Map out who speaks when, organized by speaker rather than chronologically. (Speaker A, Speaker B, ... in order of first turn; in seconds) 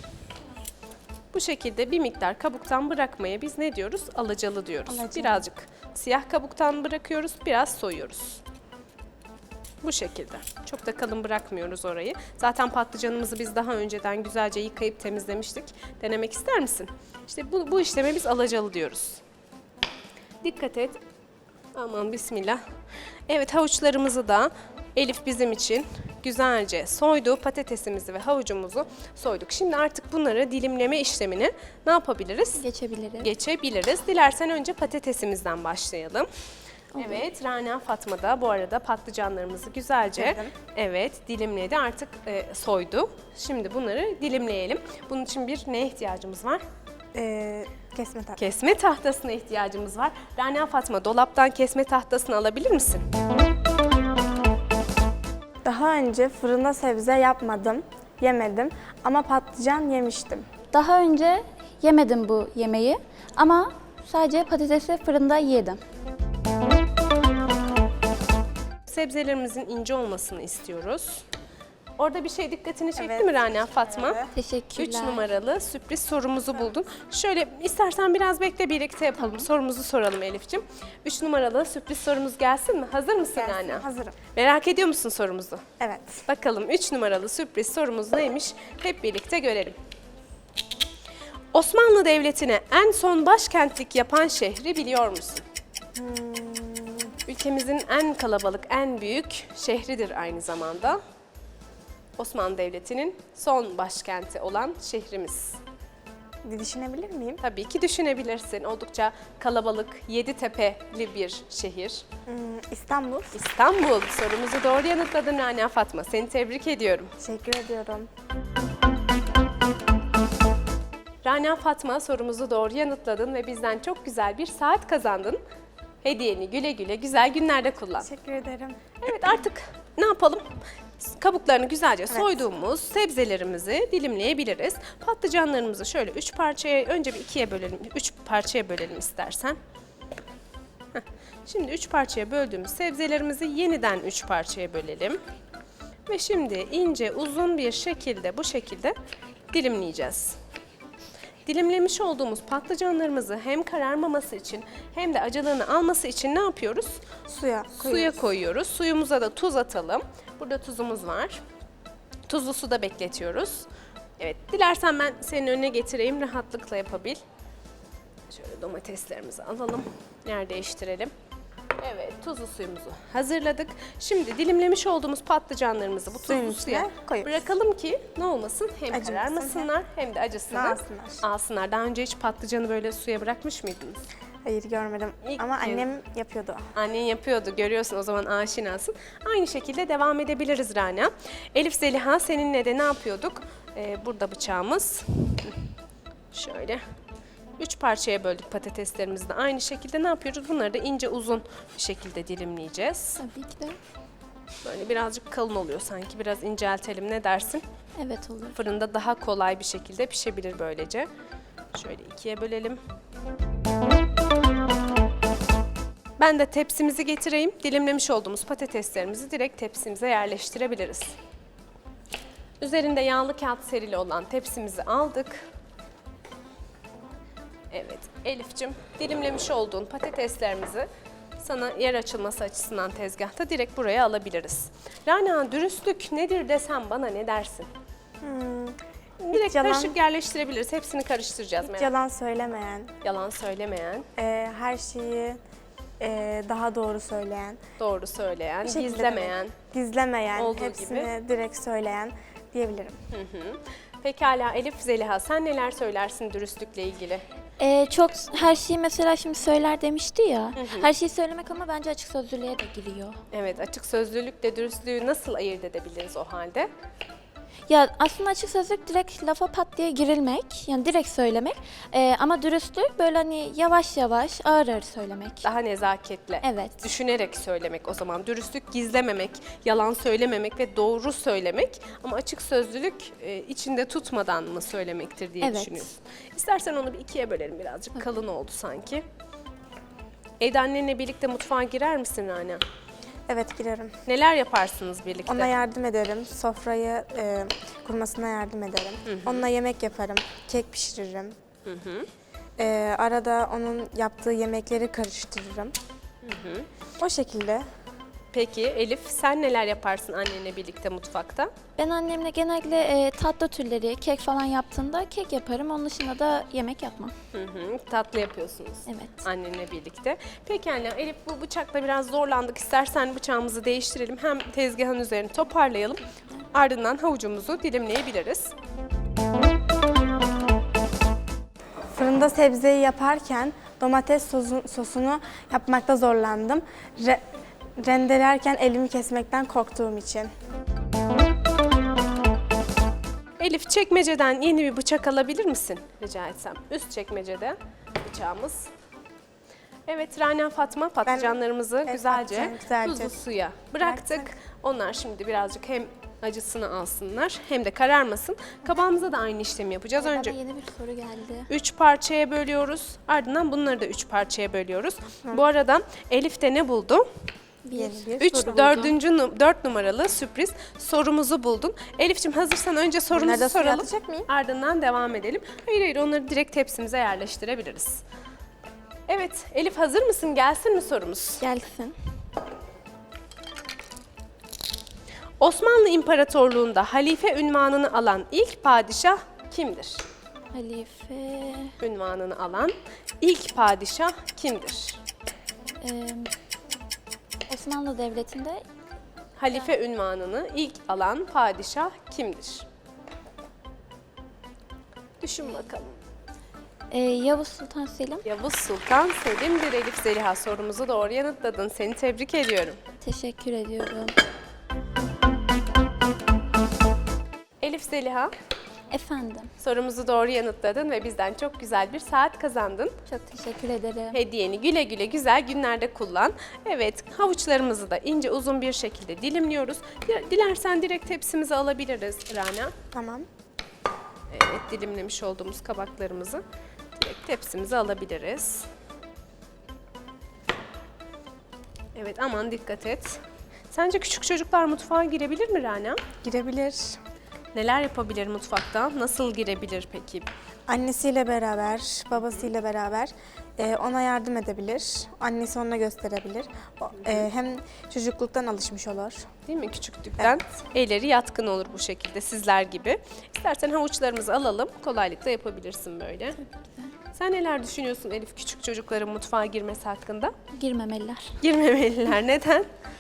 Speaker A: 1.3-8.4, 9.8-19.2, 20.4-21.0, 21.7-22.6, 23.3-32.6, 33.2-36.3, 37.0-46.6, 48.4-53.0, 68.9-71.2, 72.0-74.2, 74.8-85.7, 86.3-89.8, 91.5-95.4, 97.3-101.0, 102.2-105.6, 107.4-112.0, 113.3-117.1, 121.2-125.4, 126.0-128.1, 129.0-130.5, 131.0-139.6, 140.9-145.2, 146.1-148.9, 149.5-150.4, 151.4-157.0, 157.8-161.4, 162.3-163.7, 164.2-167.2, 168.3-171.1, 171.8-184.0, 185.2-185.9, 186.7-195.6, 196.3-196.8, 197.6-203.2, 204.6-207.6, 208.6-211.1, 211.7-212.8, 216.2-221.2, 222.6-225.4, 227.7-230.9, 231.4-237.7, 239.2-241.9, 243.0-244.1, 247.8-249.6, 250.3-251.1, 253.1-257.2, 260.6-260.9, 263.3-266.7, 275.4-289.0, 290.4-292.6, 294.1-295.5, 299.1-299.5, 301.6-302.1, 306.2-306.7, 308.3-311.5, 317.3-328.5, 343.4-348.7, 349.9-360.4, 361.5-367.1, 368.2-378.0, 379.1-381.4, 385.4-390.0, 391.8-395.0, 399.4-402.6, 405.2-405.9, 408.2-412.8, 417.6-418.3, 419.6-422.9, 424.1-432.7, 434.3-436.4, 436.9-438.7, 441.9-446.1, 447.5-450.3, 459.4-466.4, 467.1-470.3, 471.4-472.7
Speaker B: 4.9-5.4, 40.1-40.5, 47.1-48.4, 55.6-60.5, 73.0-74.3, 83.3-84.2, 85.8-86.2, 95.9-97.1, 106.4-107.4, 112.3-113.4, 117.2-118.1, 128.0-128.8, 132.1-132.4, 157.3-158.1, 176.2-177.5, 178.9-179.7, 180.5-181.2, 184.4-186.6, 238.2-238.8, 239.3-239.9, 241.6-242.9, 244.2-245.4, 246.0-247.6, 248.6-253.0, 293.3-293.9, 295.3-301.4, 302.6-305.7, 307.0-307.6, 331.9-340.3, 351.1-353.2, 353.8-354.3, 367.7-368.9, 373.1-374.3, 432.9-433.3, 446.2-447.0, 450.7-459.3
Speaker C: 32.6-33.3, 36.9-37.2, 60.7-65.8, 74.3-75.2, 79.2-79.5, 203.2-203.8, 208.0-208.6, 257.6-263.2, 267.7-275.5, 276.4-276.9, 285.4-285.9, 311.8-317.1, 318.9-319.2, 360.0-361.5, 367.6-368.1, 381.4-381.9, 390.5-391.7, 395.8-396.3, 397.5-398.6, 406.9-408.2, 413.0-414.1, 418.9-419.5, 423.1-424.2, 466.4-466.9, 470.5-471.4